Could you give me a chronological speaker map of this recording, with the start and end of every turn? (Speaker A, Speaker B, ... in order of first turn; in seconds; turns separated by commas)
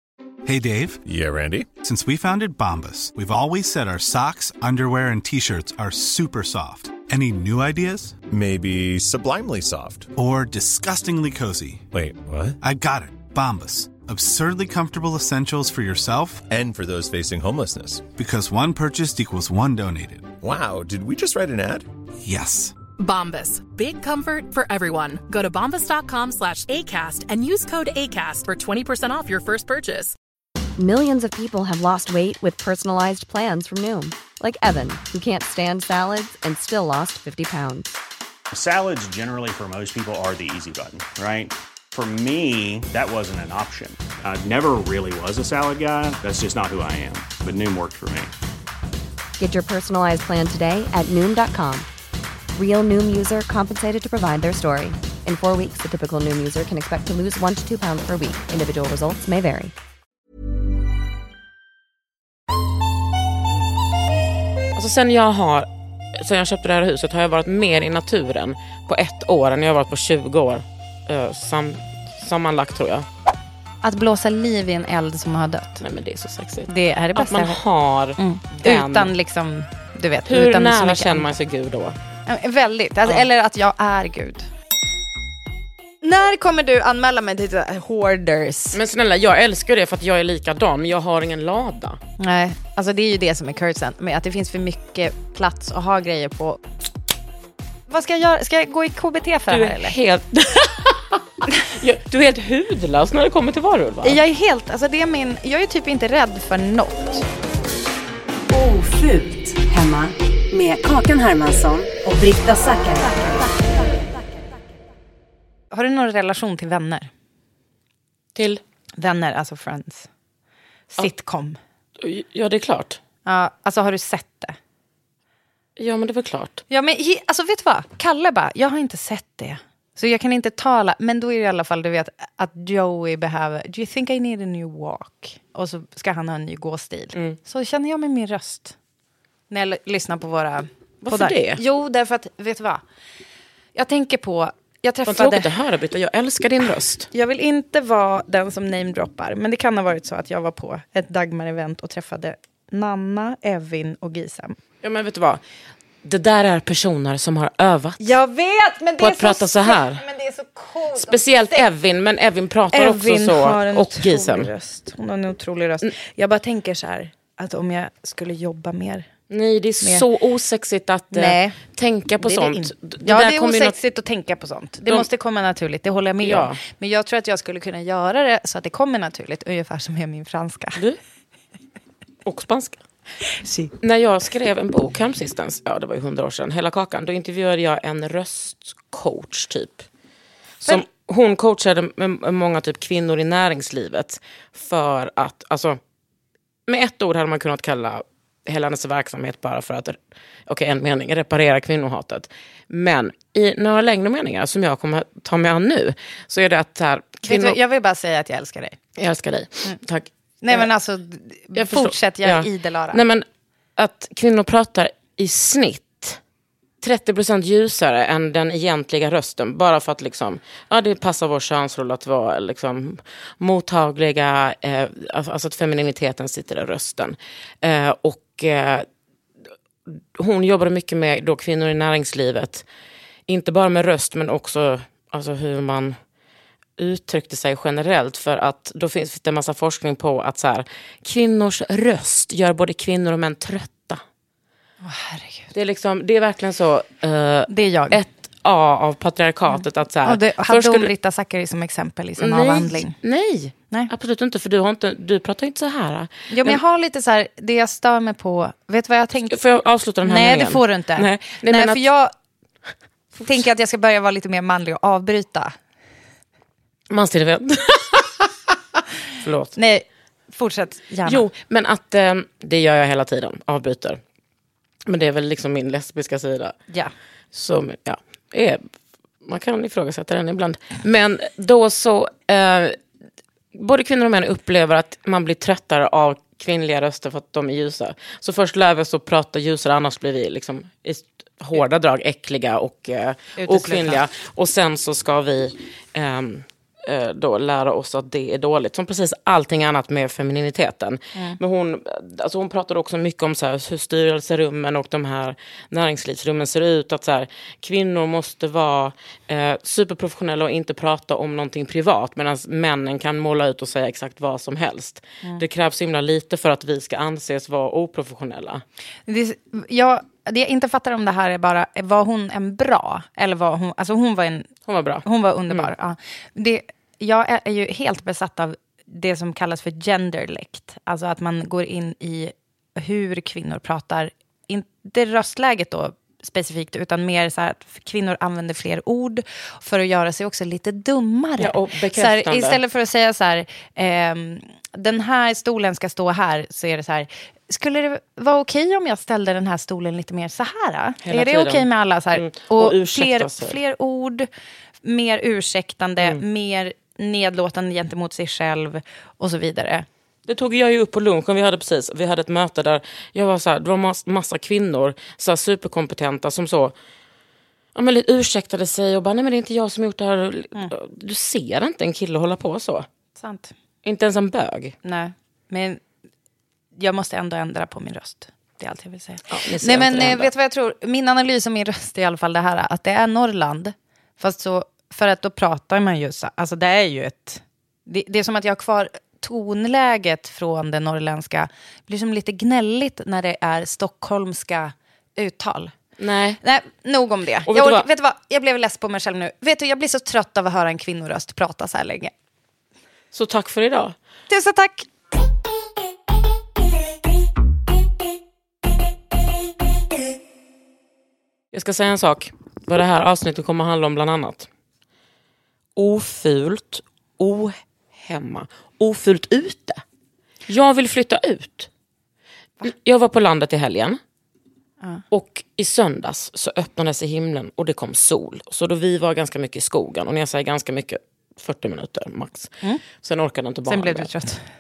Speaker A: 0.5-1.0, Speaker B: 1.1-1.7, Speaker A: 1.8-8.2, Speaker B: 8.3-10.1, Speaker A: 10.2-11.8, Speaker B: 11.9-12.6, Speaker A: 12.6-16.4, Speaker B: 16.5-18.1, Speaker A: 18.2-20.3, Speaker B: 20.4-21.9, Speaker A: 22.2-22.7, Speaker C: 23.0-30.1, Speaker D: 30.8-38.0, Speaker E: 38.5-48.3, Speaker D: 49.4-51.9, Speaker D: 52.5-59.7, Speaker F: 64.8-73.1, Speaker G: 73.8-75.8, Speaker F: 75.8-79.1, Speaker G: 76.7-77.6, Speaker G: 78.2-81.3, Speaker F: 80.2-82.0, Speaker G: 82.3-84.5, Speaker G: 86.0-88.8, Speaker F: 88.7-92.0, Speaker G: 92.2-96.6, Speaker G: 97.9-99.9, Speaker F: 99.5-104.2, Speaker G: 104.0-107.2, Speaker H: 108.5-113.4, Speaker G: 115.7-117.1, Speaker F: 118.3-118.6, Speaker G: 119.0-120.1, Speaker G: 120.9-121.6, Speaker F: 122.0-123.0, Speaker G: 123.2-124.6, Speaker F: 125.8-126.6, Speaker G: 126.7-138.8, Speaker G: 139.5-142.8, Speaker F: 141.0-141.6, Speaker G: 143.8-145.5, Speaker F: 145.1-147.1, Speaker G: 147.1-154.6, Speaker F: 154.8-155.4, Speaker F: 156.0-158.2, Speaker G: 158.0-161.6, Speaker F: 159.0-160.0, Speaker F: 160.9-164.5, Speaker G: 162.7-169.1, Speaker F: 169.3-173.8, Speaker G: 171.1-171.6, Speaker G: 172.2-180.8, Speaker F: 176.2-176.6, Speaker F: 182.2-182.8, Speaker G: 183.4-183.7, Speaker F: 183.8-189.8, Speaker F: 190.6-195.8, Speaker F: 196.7-207.6, Speaker G: 207.2-208.8, Speaker F: 208.9-210.7, Speaker G: 210.4-213.0, Speaker F: 211.5-213.2, Speaker F: 213.8-216.2, Speaker F: 216.8-228.9, Speaker F: 230.1-232.6, Speaker F: 233.3-235.9, Speaker F: 236.8-244.0, Speaker G: 244.8-245.5, Speaker F: 245.5-250.9, Speaker G: 247.5-248.0, Speaker G: 249.5-252.9, Speaker F: 252.2-256.6, Speaker G: 256.3-259.4, Speaker F: 259.3-261.8, Speaker G: 260.0-262.1, Speaker G: 263.2-265.5, Speaker F: 266.9-268.3, Speaker F: 269.2-269.6, Speaker G: 269.6-271.2, Speaker F: 271.1-274.0, Speaker F: 274.9-276.6, Speaker F: 277.3-278.6, Speaker F: 279.2-282.8, Speaker F: 283.6-318.6, Speaker G: 293.4-294.0, Speaker G: 319.1-324.5, Speaker F: 324.7-325.7, Speaker G: 325.1-354.3, Speaker F: 341.4-342.6, Speaker F: 351.0-353.6, Speaker G: 354.8-359.9, Speaker F: 360.3-366.8, Speaker F: 367.8-372.9, Speaker G: 373.1-373.5, Speaker F: 373.8-374.8, Speaker G: 374.8-375.8, Speaker G: 376.8-395.7, Speaker F: 379.3-380.3, Speaker F: 396.0-396.4, Speaker G: 396.4-402.1, Speaker F: 397.5-397.8, Speaker F: 403.1-403.9, Speaker G: 404.3-404.9, Speaker F: 411.5-414.5, Speaker F: 415.8-419.8, Speaker F: 420.5-421.7, Speaker F: 422.6-424.0, Speaker F: 425.1-434.1, Speaker G: 433.7-434.4